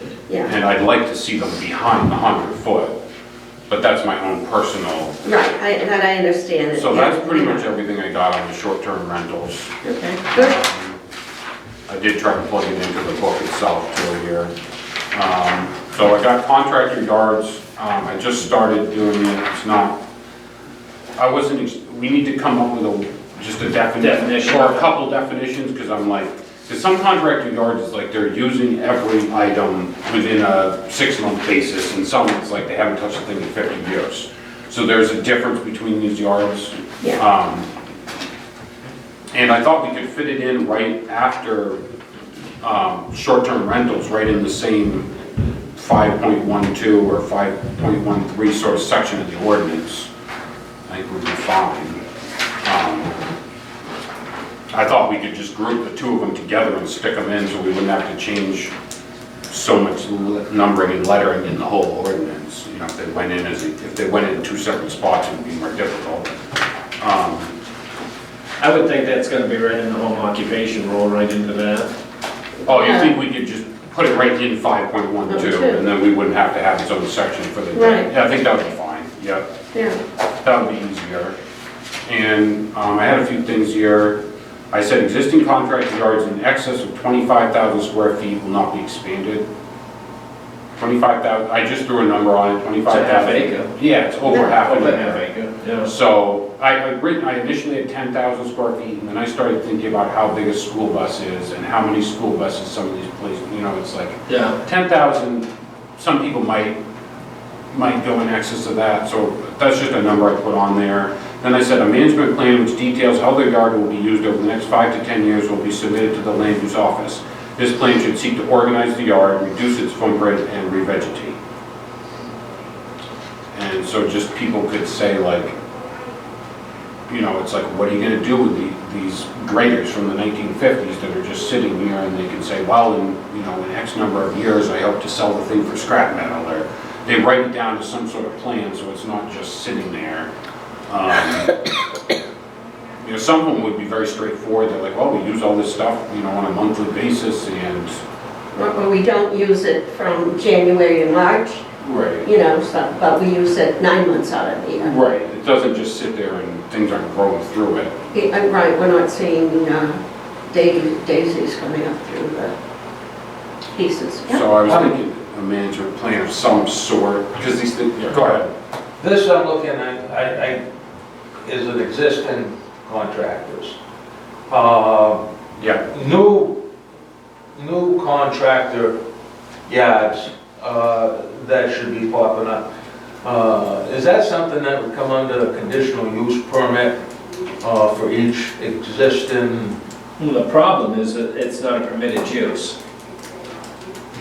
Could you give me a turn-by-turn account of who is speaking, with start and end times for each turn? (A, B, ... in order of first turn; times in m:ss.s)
0:00.3-0:00.5 A
0:00.4-0:03.0 B
0:03.7-0:05.2 B
0:05.2-0:07.6 A
0:06.8-0:09.7 B
0:09.8-0:10.6 A
0:10.3-0:11.0 B
0:11.9-0:14.5 B
0:15.1-0:20.0 B
0:21.2-0:37.7 B
0:24.0-0:24.8 C
0:39.3-0:41.8 B
0:42.6-0:45.1 B
0:45.8-0:50.1 B
0:50.9-0:52.0 B
0:52.6-0:53.2 B
0:54.7-0:58.7 B
0:59.5-1:06.4 B
1:07.0-1:07.5 B
1:08.6-1:11.9 C
1:12.7-1:13.1 A
1:12.7-1:19.4 B
1:15.3-1:15.8 A
1:17.7-1:18.1 A
1:19.7-1:20.0 A
1:20.4-1:21.3 B
1:22.1-1:24.2 B
1:24.7-1:29.4 B
1:30.8-1:35.2 B
1:32.9-1:33.7 C
1:34.3-1:34.5 A
1:34.4-1:35.9 C
1:35.8-1:46.8 B
1:44.3-1:44.6 C
1:47.7-2:01.4 B
2:03.5-2:05.6 B
2:07.1-2:20.3 B
2:20.9-2:21.5 B
2:23.0-2:28.0 B
2:28.5-2:31.6 A
2:31.8-2:32.2 B
2:32.2-2:34.9 A
2:34.8-2:37.9 B
2:38.1-2:42.5 A
2:43.7-2:44.5 A
2:44.3-2:48.5 B
2:49.0-2:50.6 D
2:51.4-2:53.8 D
2:54.5-2:55.2 D
2:55.6-2:55.8 B
2:55.8-2:56.6 D
2:57.5-2:59.0 D
2:59.7-3:02.7 D
3:03.2-3:07.0 D
3:07.6-3:09.8 D
3:10.2-3:12.8 C